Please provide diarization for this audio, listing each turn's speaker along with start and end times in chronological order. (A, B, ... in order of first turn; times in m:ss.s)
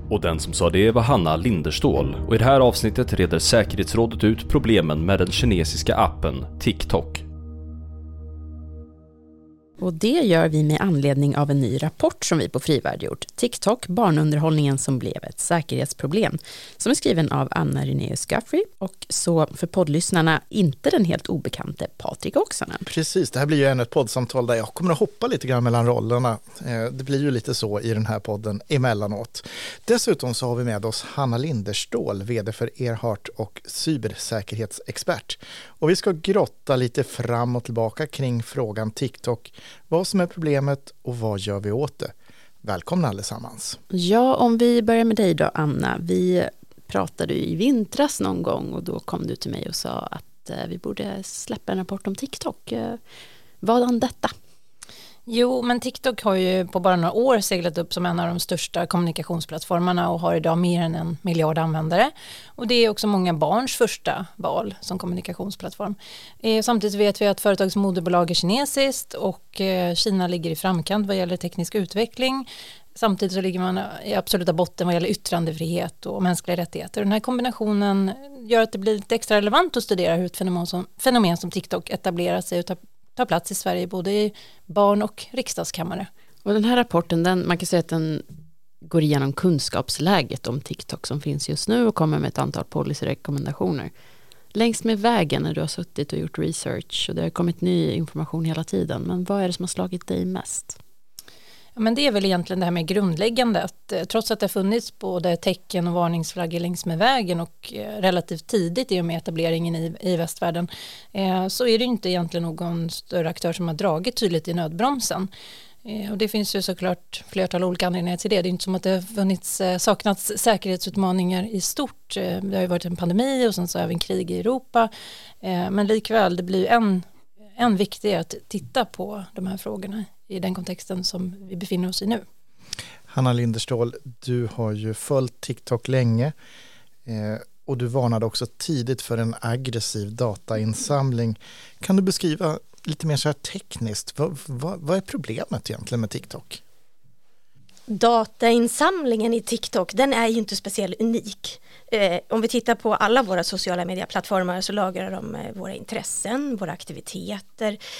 0:00.1-0:07.2 A
0:09.8-0:22.9 B
0:22.8-0:42.1 C
0:42.6-0:43.8 C
0:43.9-0:53.0 B
0:53.6-0:54.3 B
0:55.3-1:26.1 D
1:26.4-1:28.2 B
1:28.8-1:33.9 B
1:34.5-1:40.8 B
1:41.8-1:55.3 D
1:55.8-2:04.9 D
2:05.4-2:07.0 D
2:07.6-2:12.2 D
2:13.1-2:16.3 C
2:17.0-2:26.6 C
2:27.9-2:37.8 E